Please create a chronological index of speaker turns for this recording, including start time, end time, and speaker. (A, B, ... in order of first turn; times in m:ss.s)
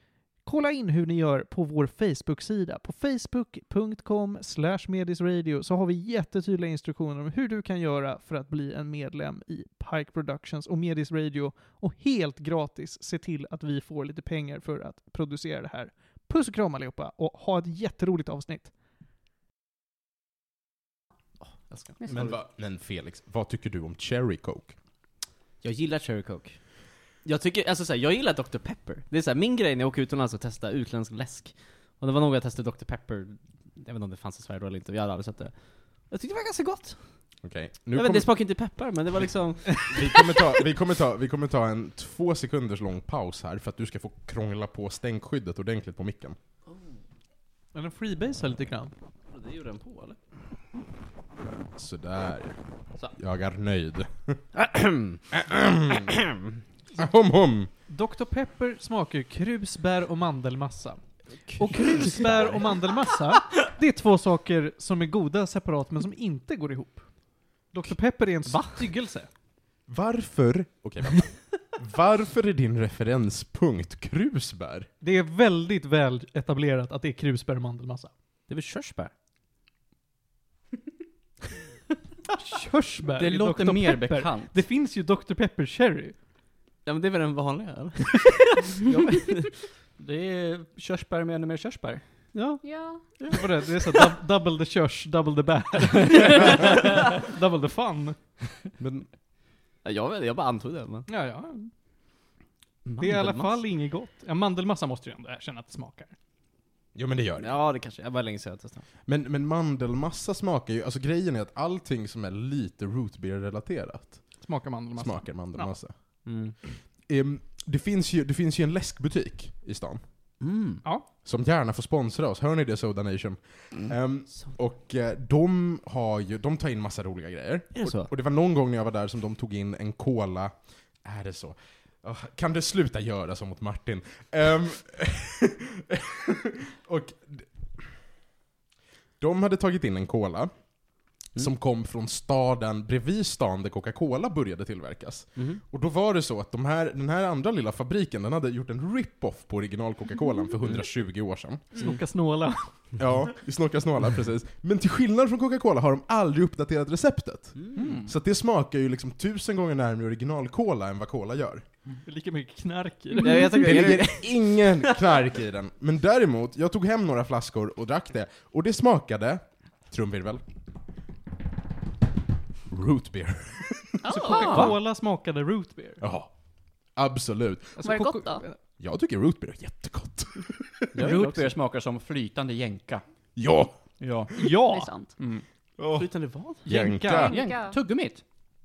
0:00.4-0:18.7 A
0:21.4-0:22.3 B
0:22.0-0:22.3 C
0:22.1-0:24.8 D
0:25.6-0:37.3 B
0:37.4-0:38.4 D
0:37.9-0:40.5 B
0:39.8-0:46.4 D
0:47.7-0:48.9 A
0:49.3-0:50.2 B
0:51.7-0:54.5 D
0:54.6-0:55.3 B
0:55.3-0:56.2 D
0:55.9-0:56.4 B
0:57.0-0:57.7 D
0:57.9-1:07.1 A
1:02.0-1:02.6 B
1:07.6-1:09.3 A
1:08.5-1:08.8 B
1:09.9-1:14.9 D
1:15.0-1:18.1 A
1:18.5-1:19.1 B
1:22.4-1:26.2 A
1:23.2-1:24.5 E
1:26.8-1:29.7 B
1:30.0-1:32.0 E
1:32.3-1:32.6 B
1:32.6-1:33.2 C
1:33.2-1:33.4 B
1:33.3-1:38.2 A
1:38.8-1:39.1 D
1:39.8-1:41.1 B
1:41.1-1:41.7 A
1:42.8-1:43.6 B
1:43.0-1:46.2 A
1:47.0-1:47.5 D
1:47.4-1:48.9 B
1:49.1-1:55.9 D
1:54.4-1:55.8 A
1:56.2-1:56.6 B
1:56.6-2:00.0 D
2:00.4-2:00.8 B
2:01.2-2:18.0 D
2:07.8-2:08.1 B
2:19.2-2:31.8 D
2:25.4-2:25.6 B
2:31.8-2:32.9 A
2:33.0-2:41.7 D
2:37.6-2:37.9 B
2:37.8-2:38.1 E
2:42.0-2:43.6 A
2:43.2-2:45.1 B
2:43.6-2:50.4 D
2:52.7-2:54.0 D
2:54.0-2:54.7 C
2:54.1-2:56.0 A
2:54.3-2:54.7 E
2:56.0-2:56.3 D
2:56.9-2:57.8 D
2:57.8-2:58.6 A
2:57.8-2:58.4 C
2:58.8-3:01.1 D
3:00.9-3:01.5 B
3:01.0-3:03.0 E
3:03.4-3:04.0 D
3:04.0-3:04.4 E
3:04.4-3:04.9 A
3:04.7-3:05.2 C
3:05.2-3:05.4 E
3:05.8-3:06.1 D
3:05.9-3:06.6 B
3:06.6-3:07.4 A
3:06.6-3:07.4 D
3:07.2-3:07.8 C
3:07.3-3:08.2 E